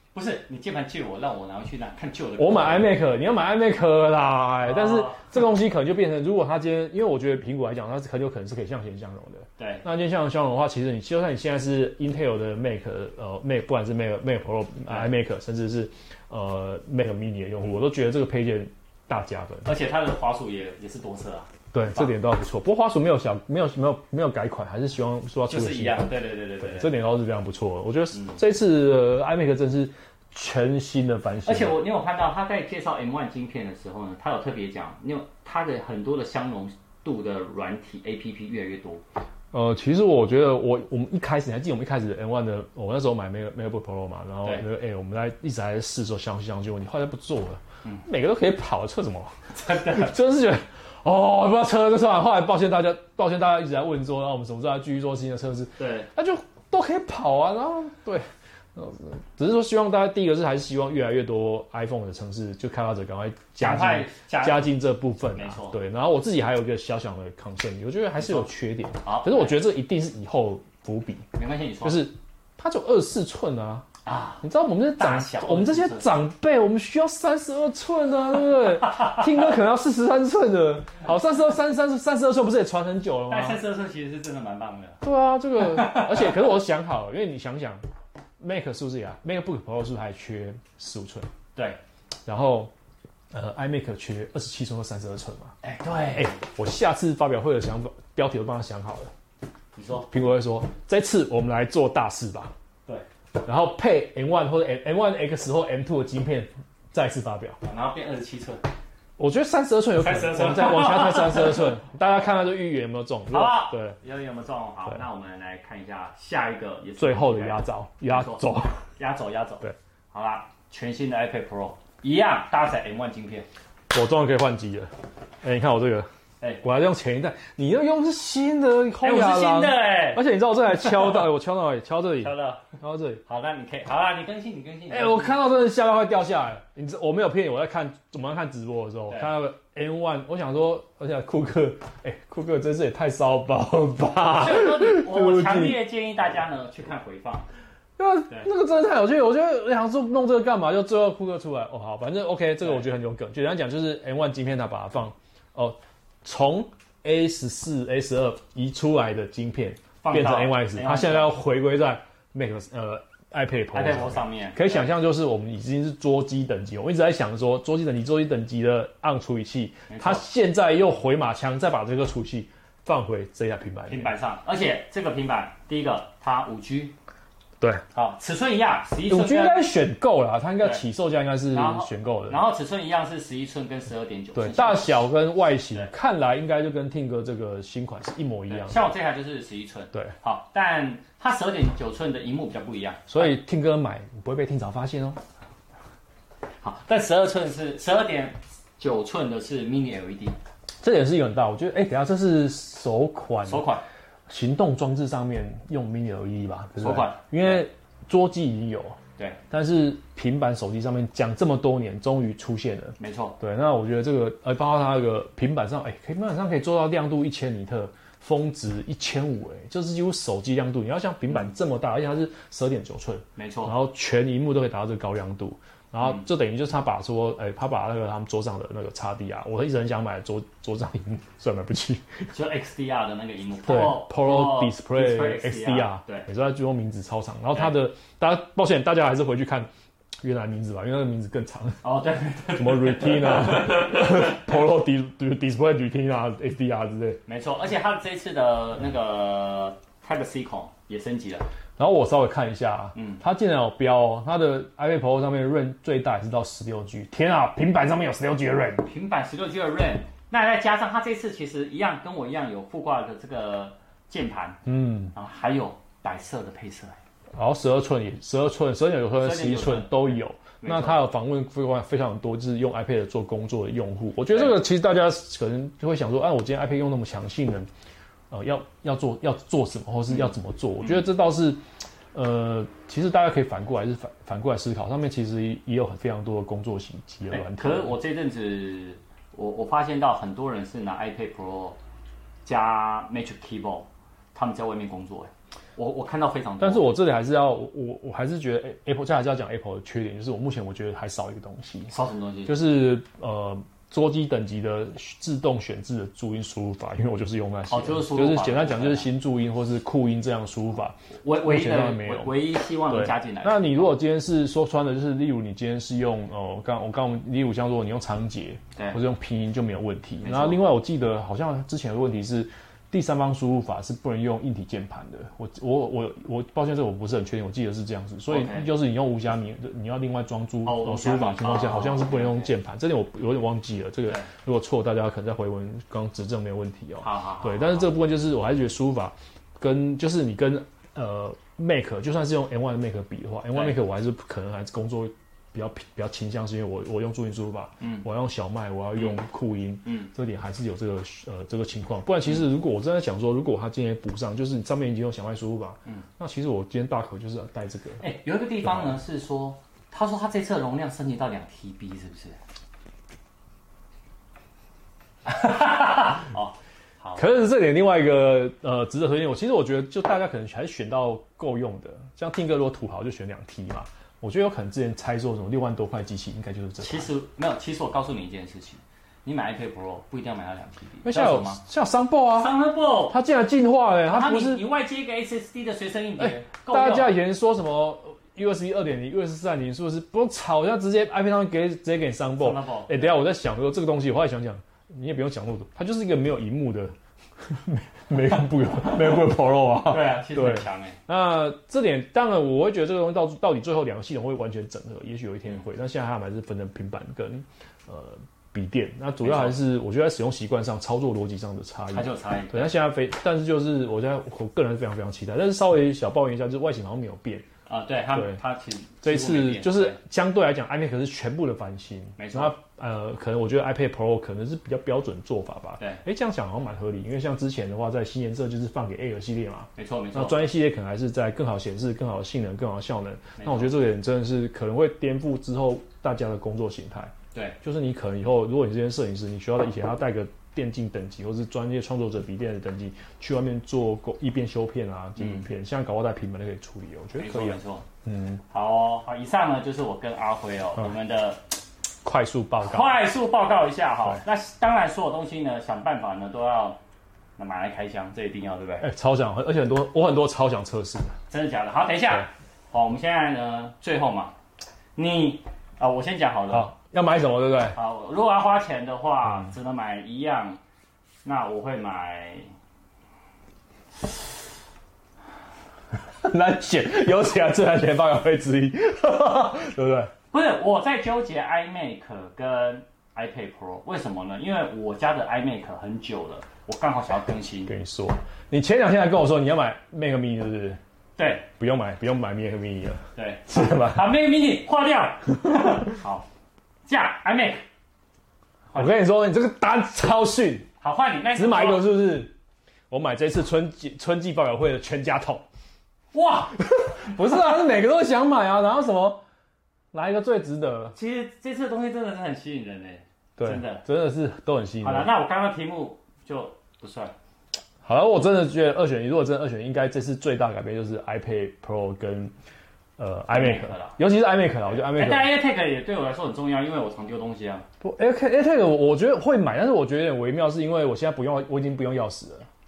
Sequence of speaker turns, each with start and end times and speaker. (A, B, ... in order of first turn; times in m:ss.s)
0:00.1-0:03.0 A
0:02.4-0:19.7 B
0:04.6-0:05.3 A
0:09.6-0:09.8 A
0:14.9-0:15.1 A
0:19.6-0:22.1 A
0:21.7-0:31.8 B
0:25.5-0:27.0 A
0:31.4-0:39.0 A
0:39.5-1:11.3 B
0:49.5-0:50.1 A
0:55.8-0:56.1 A
1:03.6-1:04.8 A
1:05.3-1:05.8 A
1:08.2-1:08.5 A
1:09.0-1:09.6 A
1:11.4-1:12.1 A
1:11.8-1:13.8 B
1:14.0-1:14.4 A
1:14.4-1:23.6 B
1:15.0-1:16.1 A
1:18.9-1:19.3 A
1:23.3-1:25.0 A
1:25.0-1:27.8 B
1:25.6-1:26.4 A
1:28.4-1:31.3 B
1:32.3-1:32.7 B
1:33.3-1:35.6 B
1:35.6-1:36.4 A
1:36.1-1:39.1 B
1:39.8-1:40.1 A
1:40.1-1:42.5 B
1:43.4-1:47.6 B
1:47.6-1:48.6 A
1:49.2-1:54.0 B
1:50.0-1:51.8 A
1:53.3-1:58.5 A
1:57.0-1:58.8 B
1:59.0-2:03.5 A
2:03.9-2:04.9 B
2:05.4-2:06.1 B
2:06.6-2:13.2 B
2:09.0-2:11.0 A
2:12.2-2:12.7 A
2:13.2-2:15.4 A
2:14.9-2:25.8 B
2:24.4-2:27.5 A
2:28.0-2:54.1 B
2:40.0-2:41.3 A
2:43.7-2:44.9 A
2:49.9-2:50.2 A
2:53.9-2:57.0 A
2:57.9-2:59.7 A
2:59.1-3:02.4 B
3:01.5-3:05.1 A
3:04.4-3:08.9 B
3:08.5-3:13.4 A
3:13.1-3:15.2 B
3:16.6-3:20.4 A
3:20.8-3:23.6 B
3:23.4-3:23.8 A
3:24.3-3:29.0 B
3:26.8-3:27.6 A
3:29.5-3:52.3 B
3:33.0-3:33.4 A
3:43.4-3:43.8 A
3:52.3-3:56.3 A
3:53.6-3:59.7 B
4:00.2-4:02.0 B
4:01.8-4:04.3 A
4:02.6-4:07.2 B
4:07.3-4:11.5 A
4:11.8-4:18.9 B
4:13.0-4:13.2 A
4:18.8-4:27.0 A
4:24.7-4:25.1 B
4:27.4-4:37.7 B
4:29.2-4:31.0 A
4:34.3-4:34.6 A
4:38.3-4:41.6 B
4:40.1-4:41.0 A
4:42.1-4:48.0 B
4:47.3-4:51.8 A
4:52.4-4:56.9 A
4:56.6-5:01.9 B
5:01.9-5:02.6 A
5:02.5-5:58.0 B
5:07.7-5:09.1 A
5:11.2-5:14.0 A
5:20.2-5:20.7 A
5:28.3-5:28.7 A
5:30.6-5:32.6 A
5:37.0-5:37.9 A
5:43.5-5:43.8 A
5:47.8-5:48.1 A
5:49.0-5:49.2 A
5:58.0-6:02.4 A
5:58.6-5:59.0 B
6:05.3-6:07.2 A
6:07.2-6:17.1 B
6:16.8-6:21.6 A
6:21.0-6:22.6 B
6:22.4-6:23.2 A
6:23.1-6:24.6 B
6:24.1-6:27.2 A
6:26.2-6:57.5 B
6:32.4-6:33.2 A
6:39.9-6:41.0 A
6:49.2-6:49.6 A
6:51.9-6:52.7 A
6:57.7-7:00.0 A
6:58.1-6:58.4 B
6:59.0-7:28.4 B
7:02.2-7:02.5 A
7:09.8-7:10.4 A
7:13.4-7:13.8 A
7:25.2-7:25.5 A
7:27.2-7:27.8 A
7:28.5-7:31.4 A
7:32.0-7:33.0 B
7:32.6-7:36.8 A
7:37.4-7:38.9 A
7:38.8-7:41.2 B
7:41.3-7:44.3 A
7:45.0-7:46.7 A
7:46.5-7:47.8 B
7:47.7-7:50.6 A
7:51.2-7:52.5 A
7:55.9-8:00.1 B
8:00.3-8:07.7 A
8:07.7-8:10.8 B
8:11.2-8:11.5 A
8:11.6-8:14.2 B
8:13.2-8:16.3 A
8:15.4-8:15.8 B
8:16.9-8:17.6 A
8:18.7-8:19.0 A
8:18.8-8:20.7 B
8:20.8-8:21.9 A
8:21.3-8:22.3 B
8:22.9-8:25.4 B
8:26.1-8:27.6 A
8:26.6-8:29.2 B
8:29.9-8:31.0 B
8:30.9-8:33.8 A
8:33.4-8:35.1 B
8:34.8-8:37.1 A
8:37.8-8:42.3 B
8:43.0-8:45.4 B
8:43.3-8:44.0 A
8:44.7-8:47.6 A
8:47.8-8:52.5 B